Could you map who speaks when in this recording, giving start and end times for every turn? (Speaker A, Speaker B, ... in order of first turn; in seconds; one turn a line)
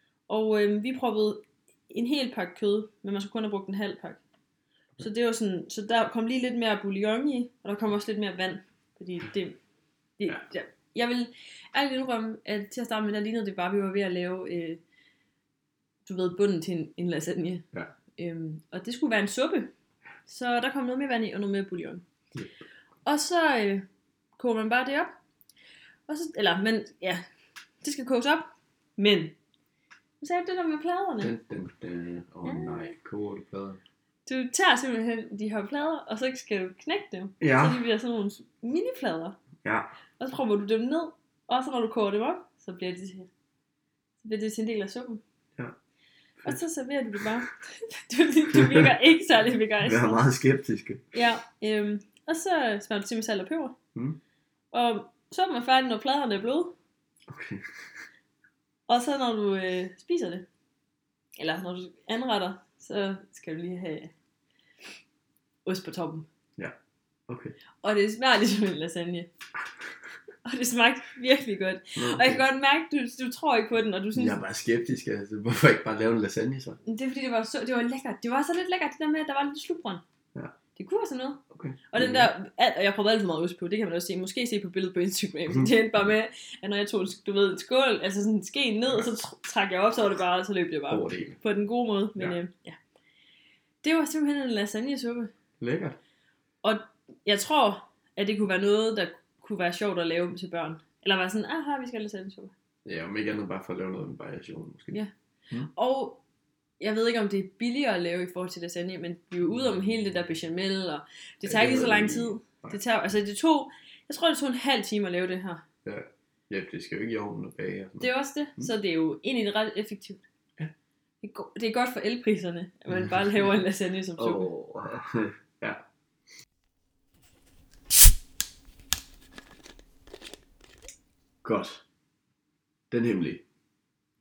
Speaker A: 0.3-4.2
Speaker A: 5.0-9.6
Speaker A: 10.2-14.8
Speaker A: 16.1-19.7
Speaker A: 20.2-22.0
Speaker A: 23.0-23.9
Speaker A: 24.4-25.1
Speaker A: 26.1-27.2
Speaker A: 27.8-29.4
Speaker A: 30.2-31.3
Speaker B: 31.2-33.8
Speaker A: 32.4-32.9
Speaker A: 34.2-39.4
Speaker B: 37.4-37.8
Speaker B: 39.6-39.9
Speaker A: 40.2-43.3
Speaker A: 44.2-45.2
Speaker A: 46.4-50.2
Speaker B: 48.5-48.9
Speaker B: 49.8-51.1
Speaker A: 51.1-53.8
Speaker A: 54.7-56.7
Speaker B: 57.3-57.7
Speaker A: 58.9-60.5
Speaker A: 61.4-64.1
Speaker A: 65.6-66.3
Speaker B: 67.3-67.6
Speaker A: 67.8-69.3
Speaker A: 70.4-74.4
Speaker B: 72.0-72.4
Speaker B: 74.1-76.8
Speaker A: 76.8-80.0
Speaker A: 80.8-92.8
Speaker B: 81.5-82.3
Speaker B: 90.9-91.4
Speaker A: 93.8-95.3
Speaker B: 95.6-96.0
Speaker A: 96.6-102.5
Speaker B: 102.8-105.7
Speaker A: 105.7-106.2
Speaker A: 106.8-115.6
Speaker B: 109.6-109.9
Speaker B: 111.4-112.8
Speaker B: 115.8-118.7
Speaker A: 118.0-120.2
Speaker A: 121.2-124.5
Speaker B: 124.2-125.8
Speaker B: 131.4-131.8
Speaker B: 132.9-133.4